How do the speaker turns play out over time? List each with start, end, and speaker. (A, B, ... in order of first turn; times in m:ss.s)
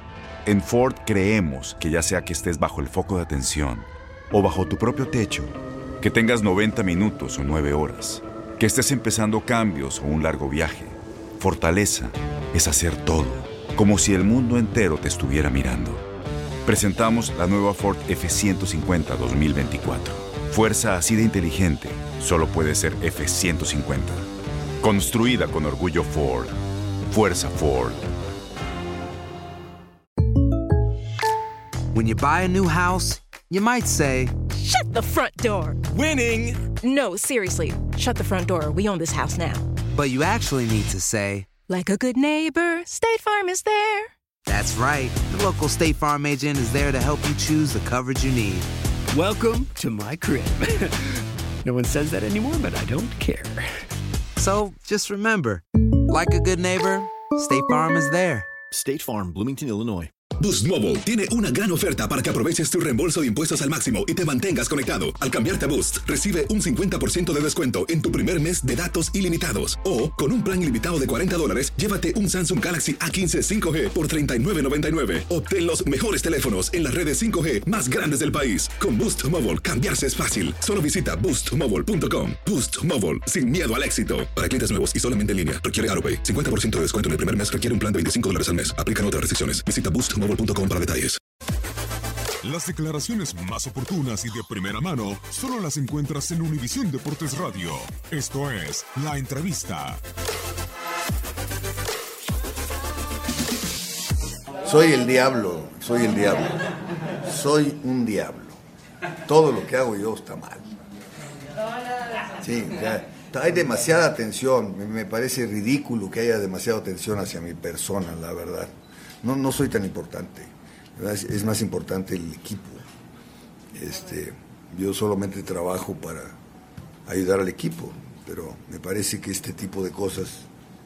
0:00.4-0:16.0 A
0:16.6-0:24.2 A
0:24.8-0:26.5 A
0:27.1-0:28.1 A
0:31.9-0:34.4 B
0:34.6-0:35.8 C
0:36.8-0:39.6 C
0:39.9-0:41.5 B
0:41.7-0:44.1 C
0:44.4-0:48.7 B
0:49.1-0:50.9 D
0:51.6-0:53.7 D
0:54.4-0:58.5 B
1:00.4-1:31.2 E
1:32.4-1:40.0 F
1:44.6-1:46.6 G
1:47.2-1:48.6 G
1:49.3-1:50.7 G
1:52.4-2:02.8 G
2:03.7-2:06.4 G
2:07.0-2:10.5 G